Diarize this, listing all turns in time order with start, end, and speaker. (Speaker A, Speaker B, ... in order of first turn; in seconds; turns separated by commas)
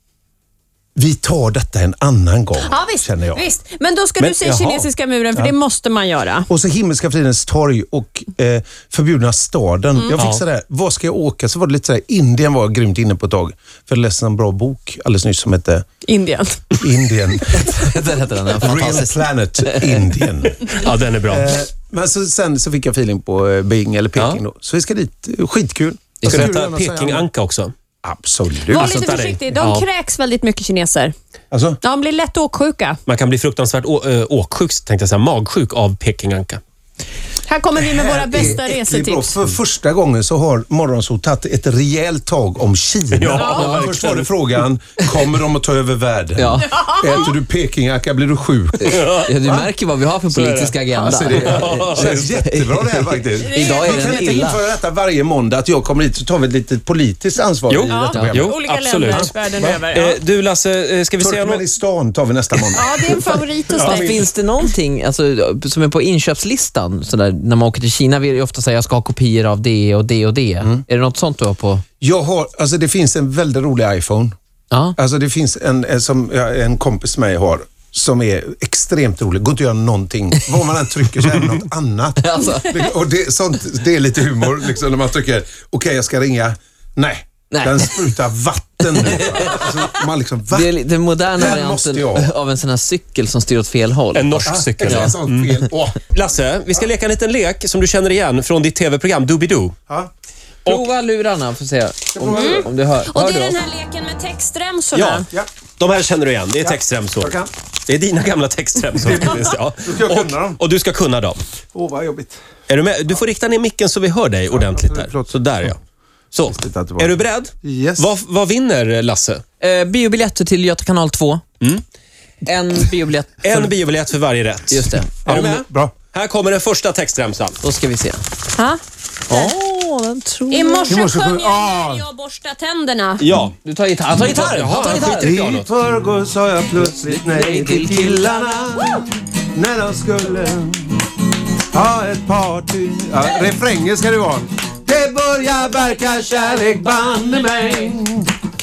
Speaker A: 1.0-3.4, Speaker B: 2.6-6.5, Speaker A: 4.2-5.5, Speaker A: 6.5-15.8, Speaker C: 10.2-10.4, Speaker B: 16.1-16.8, Speaker A: 16.8-27.3, Speaker D: 17.6-20.1, Speaker C: 20.7-21.5, Speaker C: 26.2-27.7, Speaker A: 28.0-29.0, Speaker B: 28.7-31.1, Speaker C: 28.8-29.8, Speaker D: 28.8-29.2, Speaker A: 31.5-31.8, Speaker B: 31.8-33.0, Speaker C: 33.1-36.6, Speaker B: 37.5-39.4, Speaker A: 37.8-49.7, Speaker C: 43.1-44.3, Speaker B: 43.3-43.6, Speaker D: 43.5-43.9, Speaker D: 46.4-46.9, Speaker D: 48.8-54.6, Speaker C: 48.9-49.3, Speaker C: 50.3-52.2, Speaker A: 50.9-58.6, Speaker B: 53.4-54.4, Speaker C: 57.7-59.3, Speaker B: 57.9-60.2, Speaker D: 58.1-58.4, Speaker A: 59.1-59.8, Speaker C: 59.9-61.6, Speaker A: 61.2-63.2, Speaker B: 62.7-64.7, Speaker C: 63.8-64.1, Speaker D: 63.8-71.8, Speaker A: 72.0-74.3, Speaker D: 74.7-75.0, Speaker A: 75.0-90.7, Speaker D: 82.2-82.8, Speaker D: 87.5-88.1, Speaker D: 88.9-89.9, Speaker D: 90.5-95.2, Speaker A: 91.3-92.3, Speaker C: 94.1-95.5, Speaker A: 94.5-96.1, Speaker C: 96.1-99.8, Speaker D: 100.7-103.6, Speaker A: 102.1-102.7, Speaker B: 102.3-105.3, Speaker C: 105.0-107.3, Speaker A: 106.6-107.5, Speaker C: 107.9-111.4, Speaker A: 109.0-110.6, Speaker A: 111.7-112.4, Speaker C: 112.7-115.8, Speaker A: 114.5-115.5, Speaker C: 116.3-119.4, Speaker A: 116.5-118.1, Speaker D: 119.6-121.4, Speaker D: 122.5-123.7, Speaker C: 123.4-127.6, Speaker D: 124.7-125.1, Speaker A: 125.2-125.9, Speaker D: 127.6-128.2, Speaker B: 128.6-129.6, Speaker D: 129.3-131.0, Speaker B: 130.5-133.2, Speaker A: 130.9-132.1, Speaker C: 133.2-133.6, Speaker D: 133.6-135.5, Speaker C: 134.2-135.7, Speaker A: 135.2-141.0, Speaker D: 136.8-138.4, Speaker A: 141.7-148.3